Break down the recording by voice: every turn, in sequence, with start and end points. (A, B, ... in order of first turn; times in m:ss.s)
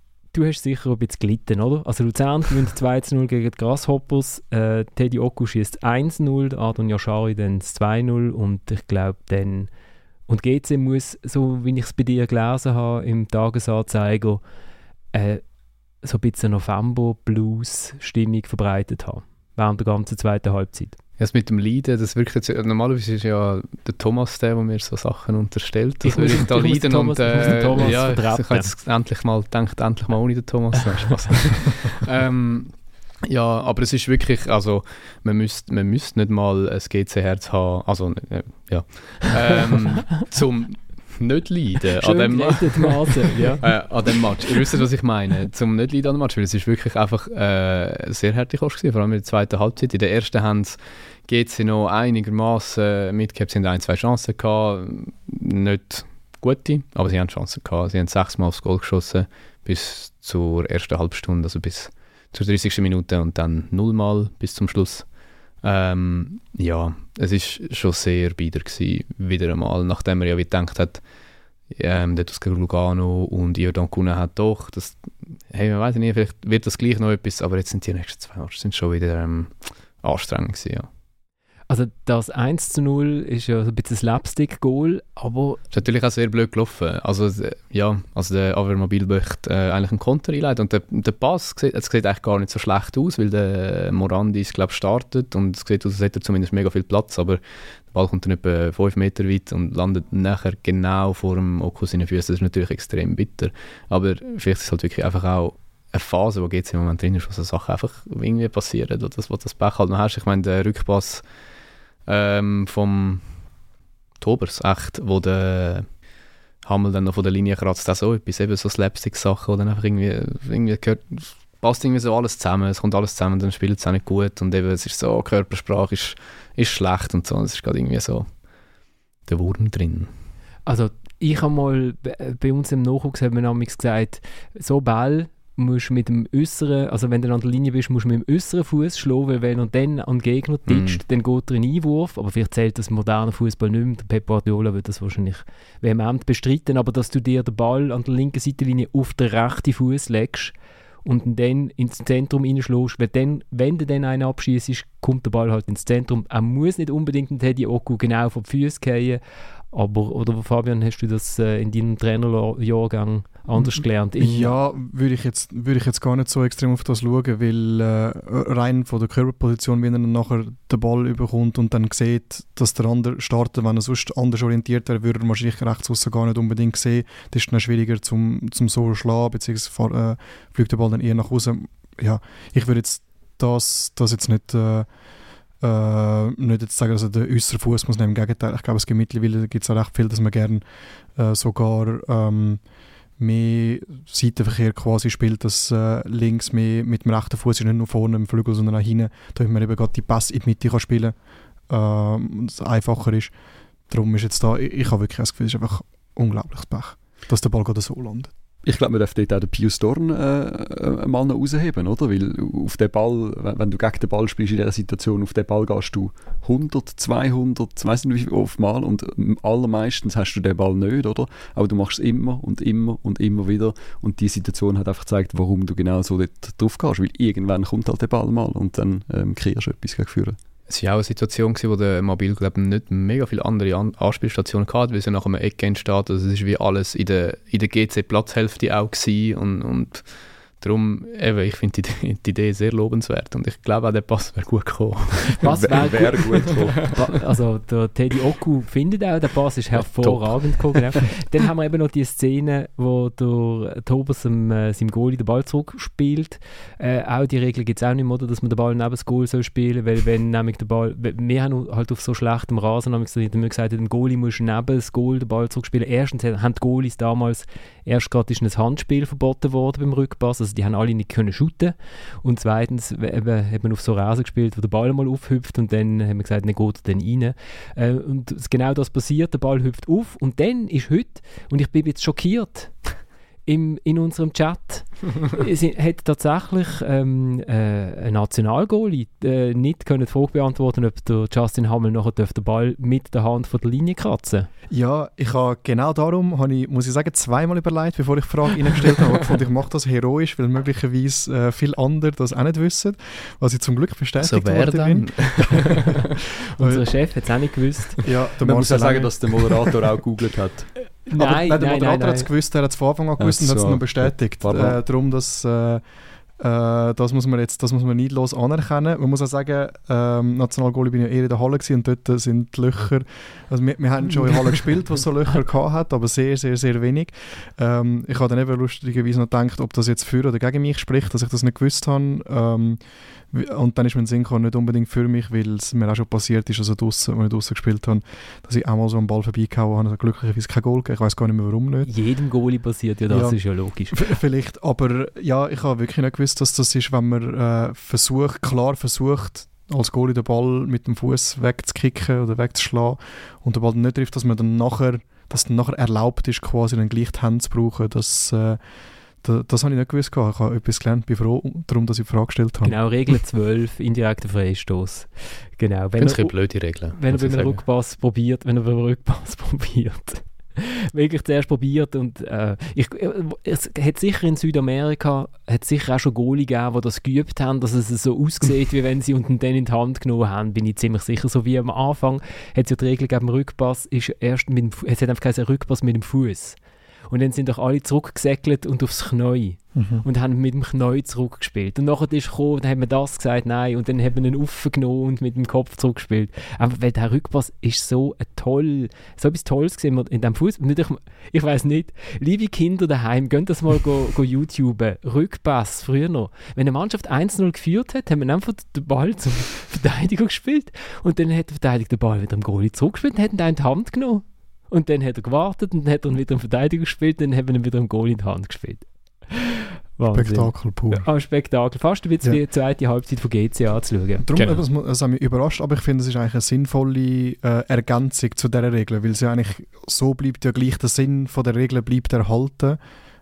0:00.3-0:09.7 A
0:10.3-0:14.4 A
0:15.1-0:15.4 A
0:16.0-0:21.0 A
0:21.2-0:32.7 B
0:26.0-0:28.7 A
0:33.2-1:05.0 B
0:42.0-0:43.7 A
1:05.6-1:11.0 B
1:11.7-1:20.9 B
1:21.7-1:25.6 A
1:25.7-1:51.2 B
1:52.0-1:53.4 B
1:54.2-1:55.9 B
1:56.6-2:08.3 B
2:09.3-2:10.1 B
2:10.7-2:30.5 A
2:20.7-2:21.0 B
2:31.0-2:39.2 A
2:39.7-2:44.6 A
2:44.2-3:04.9 C
3:05.6-3:10.6 C
3:11.2-3:12.6 C
3:13.2-3:21.1 C
3:21.7-3:23.3 C
3:23.9-3:28.3 C
3:28.6-3:50.4 D
3:50.7-4:05.4 B
4:05.4-4:42.9 A
4:05.4-4:06.9 D
4:09.9-4:10.5 B
4:43.5-4:54.5 A
4:54.7-5:05.9 C
5:04.2-5:06.0 B
5:06.6-5:08.0 A
5:06.6-5:06.8 C
5:08.0-5:09.2 C
5:08.4-5:10.7 D
5:11.0-5:12.3 A
5:11.1-5:15.8 C
5:13.2-5:14.8 D
5:16.4-5:32.8 C
5:33.3-5:41.9 C
5:41.8-5:44.0 A
5:43.1-5:58.6 C
5:59.2-6:02.8 C
6:02.6-6:26.6 A
6:06.0-6:07.6 B
6:27.1-7:04.2 A
6:29.7-6:30.0 C
7:00.1-7:01.0 C
7:04.2-7:12.8 C
7:04.4-7:04.6 B